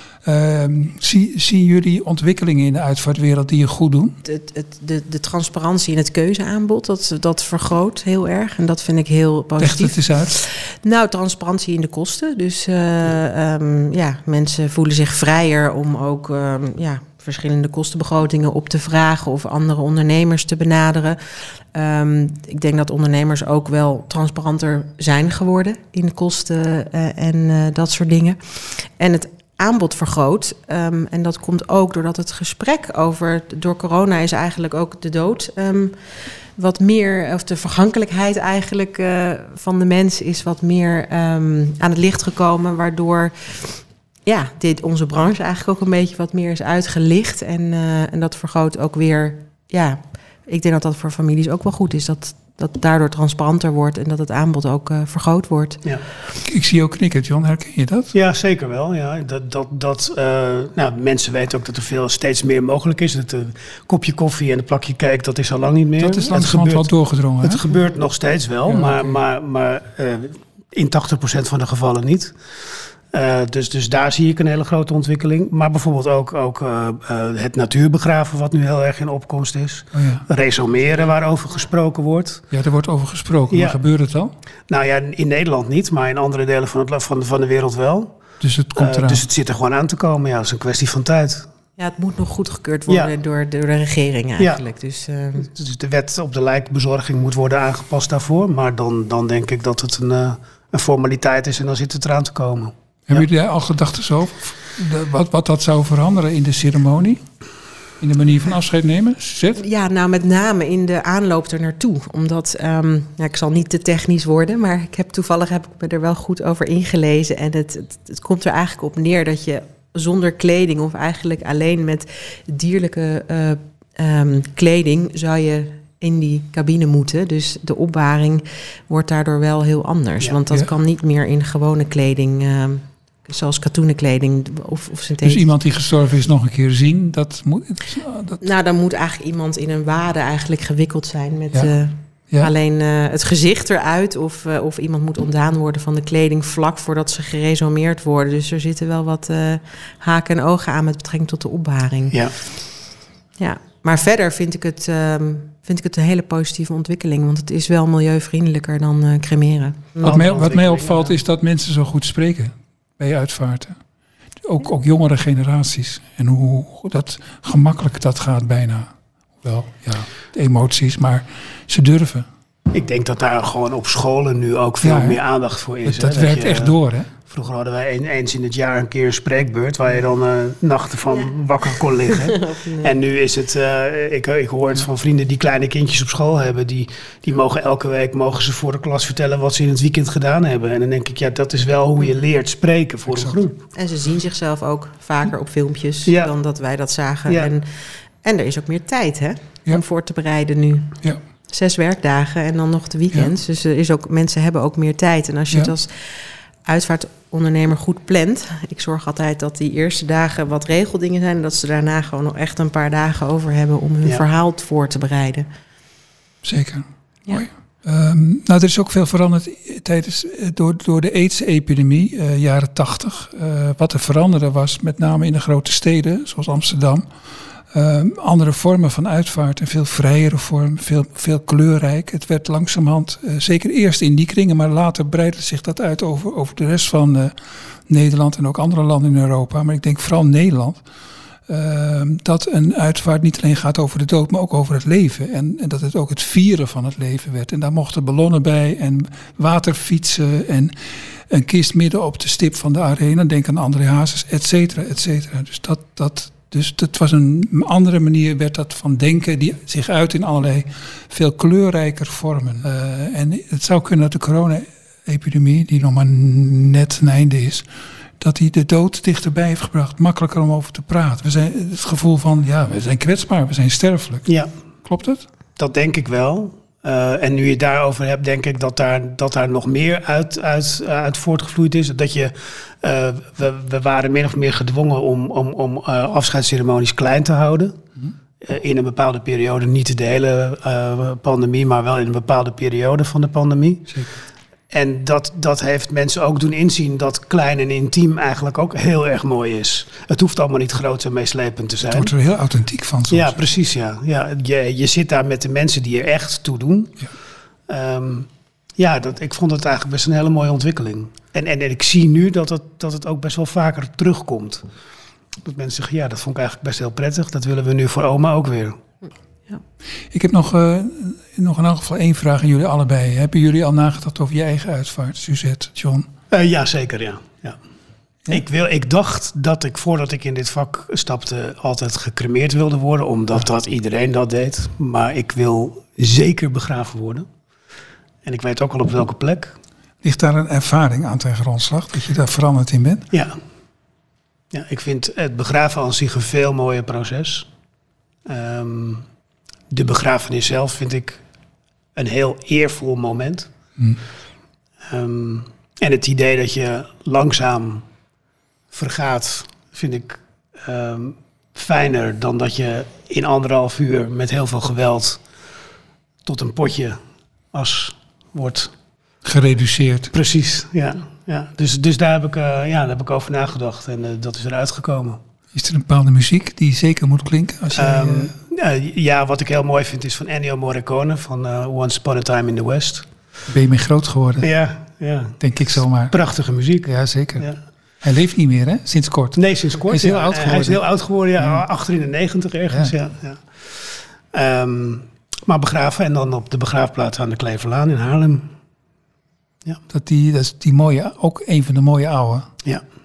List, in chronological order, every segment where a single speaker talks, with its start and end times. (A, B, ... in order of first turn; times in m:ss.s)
0:00.2-0:04.2 A
0:04.2-0:36.0 B
0:09.6-0:10.3 A
0:36.6-0:55.8 B
0:56.4-0:58.1 A
0:58.1-1:06.9 C
1:06.0-1:07.6 A
1:07.4-1:22.4 C
1:08.7-1:09.2 A
1:19.9-1:20.2 A
1:22.5-1:24.3 A
1:23.5-1:23.8 C
1:24.7-1:28.2 C
1:28.4-1:29.2 A
1:28.8-1:31.5 C
1:31.8-1:35.5 B
1:35.4-1:43.3 C
1:43.1-1:47.2 A
1:48.0-1:49.6 A
1:49.6-2:15.4 B
2:15.2-2:18.4 A
2:18.4-2:32.2 B
2:33.4-2:40.1 B
2:40.0-2:41.2 C
2:40.0-2:43.8 A
2:44.4-2:48.9 A
2:49.4-2:52.2 A
2:52.7-2:56.7 C
2:54.8-2:55.2 A
2:55.8-2:57.1 A
2:57.3-3:13.6 C
3:02.0-3:03.0 B
3:13.1-3:13.4 A
3:13.7-3:17.7 B
3:16.0-3:16.3 C
3:17.3-3:17.5 C
3:18.2-3:20.9 B
3:21.5-3:35.5 B
3:36.4-3:47.0 A
3:47.7-3:57.3 A
3:57.9-4:00.8 A
4:01.5-4:27.6 A
4:28.2-4:34.2 A
4:34.2-4:34.5 C
4:34.8-4:35.2 A
4:35.6-4:47.8 C
4:48.4-4:54.0 C
4:54.7-5:02.1 C
5:01.9-5:03.4 A
5:03.1-5:07.0 C
5:07.7-5:14.6 C
5:15.4-5:18.8 C
5:20.1-5:26.1 A
5:26.3-5:27.6 C
5:28.3-5:37.3 C
5:38.2-5:39.6 C
5:40.0-5:43.0 A
5:43.1-5:43.4 C
5:44.5-5:47.5 C
5:48.2-5:49.0 C
5:49.7-5:51.2 C
5:51.9-5:53.5 C
5:54.8-5:57.8 C
5:58.7-6:05.2 C
6:06.2-6:07.0 C
6:07.5-6:08.7 C
6:09.2-6:10.1 A
6:10.1-6:15.2 C
6:15.5-6:18.3 A
6:17.7-6:23.1 C
6:23.5-6:24.5 A
6:24.4-6:26.9 C
6:25.4-6:26.2 A
6:26.8-6:27.5 A
6:28.0-6:30.8 A
6:29.4-6:38.5 C
6:39.9-6:42.5 A